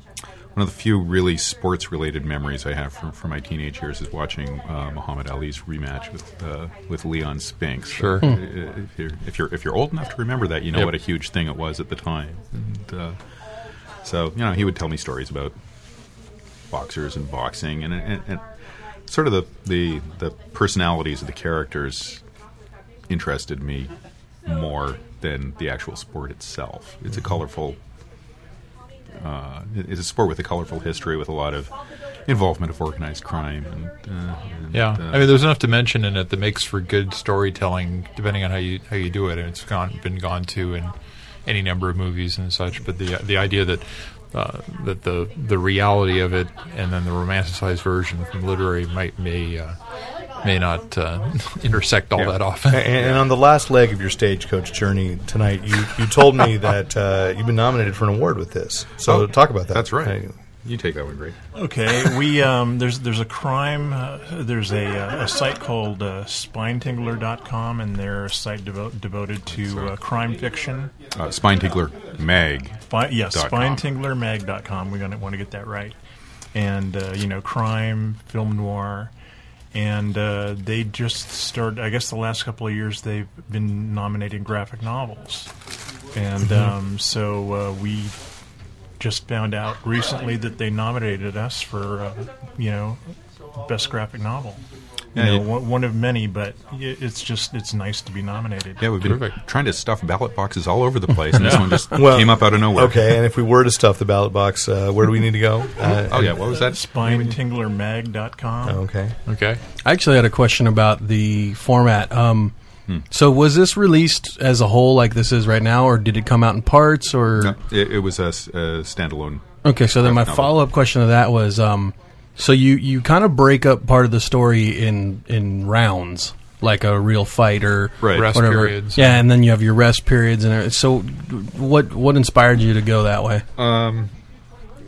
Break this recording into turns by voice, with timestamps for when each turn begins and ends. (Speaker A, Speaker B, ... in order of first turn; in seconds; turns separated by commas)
Speaker A: 0.5-13.2, Speaker B: 7.9-8.4, Speaker A: 14.0-15.5, Speaker A: 16.7-18.4, Speaker A: 19.1-22.2, Speaker A: 23.1-23.9, Speaker A: 24.4-27.8, Speaker A: 29.2-31.7, Speaker A: 32.3-35.4, Speaker B: 34.7-40.9, Speaker B: 41.5-49.8, Speaker B: 50.4-52.9, Speaker C: 52.7-60.3, Speaker A: 52.9-53.2, Speaker A: 59.0-61.4, Speaker D: 61.5-70.9, Speaker A: 71.1-72.8, Speaker D: 72.9-75.9, Speaker A: 73.3-73.8, Speaker D: 76.5-79.1, Speaker D: 79.7-85.5, Speaker D: 86.1-88.2, Speaker D: 89.0-93.0, Speaker D: 93.5-94.6, Speaker D: 95.1-98.9, Speaker A: 95.1-95.5, Speaker A: 98.8-103.1, Speaker B: 99.0-99.3, Speaker B: 101.3-101.9, Speaker C: 101.9-106.3, Speaker A: 105.8-107.4, Speaker D: 106.2-108.8, Speaker C: 108.6-109.1, Speaker B: 109.3-109.6, Speaker E: 109.8-112.5, Speaker E: 113.1-117.5, Speaker A: 117.4-120.5, Speaker E: 119.6-133.4, Speaker A: 128.0-128.7, Speaker B: 128.1-129.1, Speaker A: 133.6-134.1